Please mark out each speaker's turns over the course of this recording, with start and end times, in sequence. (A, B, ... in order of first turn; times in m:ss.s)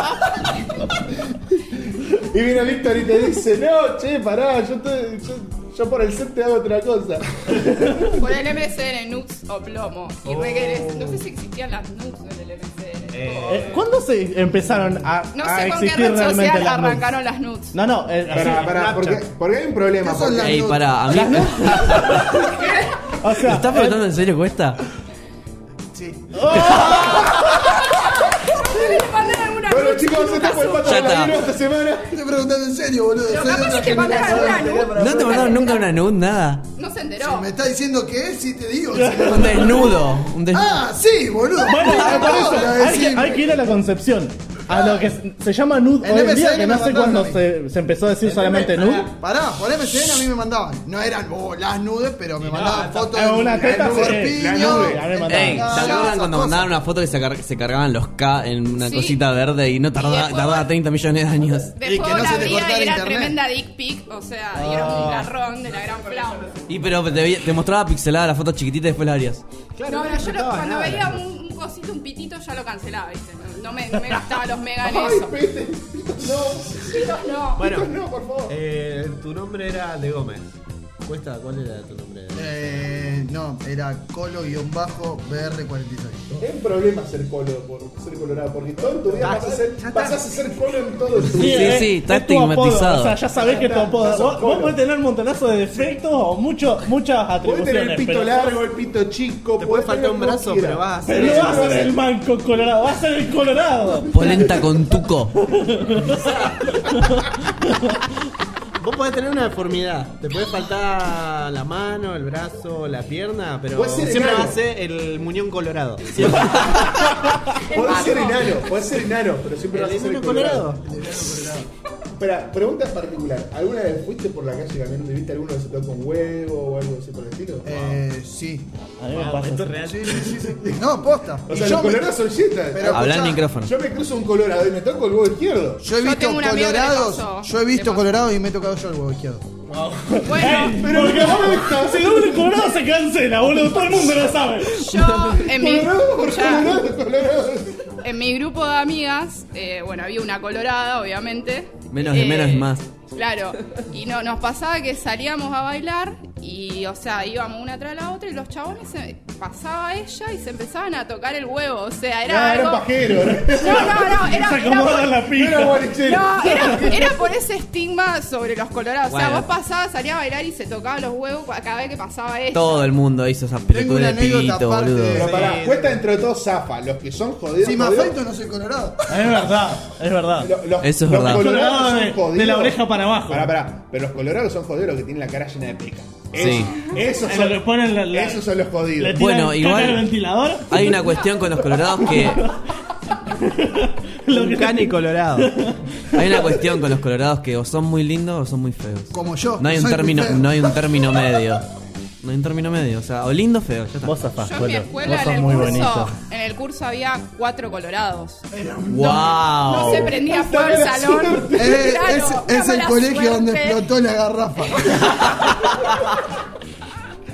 0:00.8-0:08.1 A
0:07.6-0:08.1 B
0:08.0-0:13.8 C
0:10.2-0:11.3 D
0:13.1-0:13.8 D
0:13.5-0:17.1 B
0:15.3-0:17.8 C
0:17.7-0:18.7 B
0:18.3-0:20.6 A
0:18.3-0:19.2 D
0:20.0-0:21.3 E
0:20.4-0:22.7 F
0:21.1-0:22.2 B
0:22.5-0:23.0 C
0:23.1-0:24.0 B
0:23.4-0:24.8 F
0:25.9-0:27.2 E
0:26.3-0:27.3 B
0:27.9-0:31.5 C
0:28.7-0:29.1 A
0:29.6-0:32.2 A
0:30.8-0:31.4 F
0:32.1-0:35.8 E
0:33.2-0:35.9 C
0:34.2-0:35.2 D
0:34.9-0:36.6 F
0:36.8-0:37.5 C
0:37.2-0:43.8 E
0:39.0-0:39.6 B
0:39.2-0:40.8 F
0:41.6-0:49.1 B
0:42.1-0:42.4 C
0:44.7-0:45.0 E
0:46.0-0:47.4 E
0:48.2-0:49.1 D
0:49.0-0:56.7 E
0:52.4-0:53.2 D
0:53.1-0:55.7 B
0:53.6-0:55.1 A
0:55.3-1:01.8 F
0:55.7-0:56.4 C
0:58.8-0:59.2 C
1:00.0-1:00.7 C
1:01.7-1:06.6 C
1:01.8-1:03.4 E
1:04.6-1:05.3 B
1:04.8-1:05.1 D
1:05.7-1:07.1 D
1:06.6-1:09.4 F
1:09.8-1:11.3 D
1:09.9-1:15.4 C
1:14.8-1:18.6 A
1:16.8-1:17.6 C
1:17.6-1:18.0 D
1:18.5-1:22.5 D
1:22.4-1:26.4 E
1:26.4-1:31.9 A
1:29.1-1:30.2 D
1:31.3-1:33.2 F
1:31.3-1:38.5 B
1:33.3-1:34.8 A
1:37.4-1:42.0 A
1:39.6-1:41.9 D
1:41.1-1:44.2 B
1:44.1-1:45.4 F
1:45.5-1:48.0 B
1:46.1-1:46.5 D
1:48.8-1:57.2 D
1:53.7-1:54.6 A
1:57.6-1:58.9 C
1:57.6-2:00.7 A
1:59.7-2:00.8 D
2:00.8-2:01.7 E
2:02.2-2:08.0 A
2:07.6-2:08.7 E
2:09.0-2:09.9 B
2:09.1-2:10.8 D
2:09.8-2:12.2 E
2:11.5-2:15.9 A
2:12.7-2:13.5 E
2:12.9-2:13.7 F
2:15.8-2:19.5 E
2:16.0-2:18.1 C
2:19.7-2:20.3 D
2:20.1-2:24.9 B
2:20.2-2:20.9 C
2:20.4-2:22.7 A
2:23.7-2:24.2 A
2:24.8-2:26.8 C
2:25.4-2:27.9 A
2:28.0-2:45.2 C
2:31.9-2:32.9 F
2:42.3-2:47.3 A
2:43.2-2:45.9 B
2:46.0-2:52.9 C
2:46.5-2:46.9 B
2:49.1-2:49.5 F
2:52.5-2:55.3 F
2:53.7-2:55.6 E
2:55.1-2:58.2 A
2:55.2-2:56.0 D
2:57.6-2:59.4 E
2:59.1-3:00.5 B
3:00.4-3:09.2 A
3:00.8-3:01.5 F
3:01.2-3:03.5 B
3:06.3-3:06.7 F
3:07.2-3:11.0 B
3:09.2-3:10.1 F
3:10.7-3:12.5 F
3:12.0-3:12.6 B
3:13.3-3:16.6 B
3:14.3-3:15.7 D
3:16.1-3:21.7 F
3:19.1-3:20.8 E
3:22.2-3:24.2 F
3:24.0-3:26.2 B
3:24.4-3:28.4 C
3:28.5-3:29.5 E
3:28.8-3:30.1 F
3:29.6-3:33.8 C
3:29.8-3:32.2 A
3:31.6-3:35.2 E
3:35.2-3:35.8 F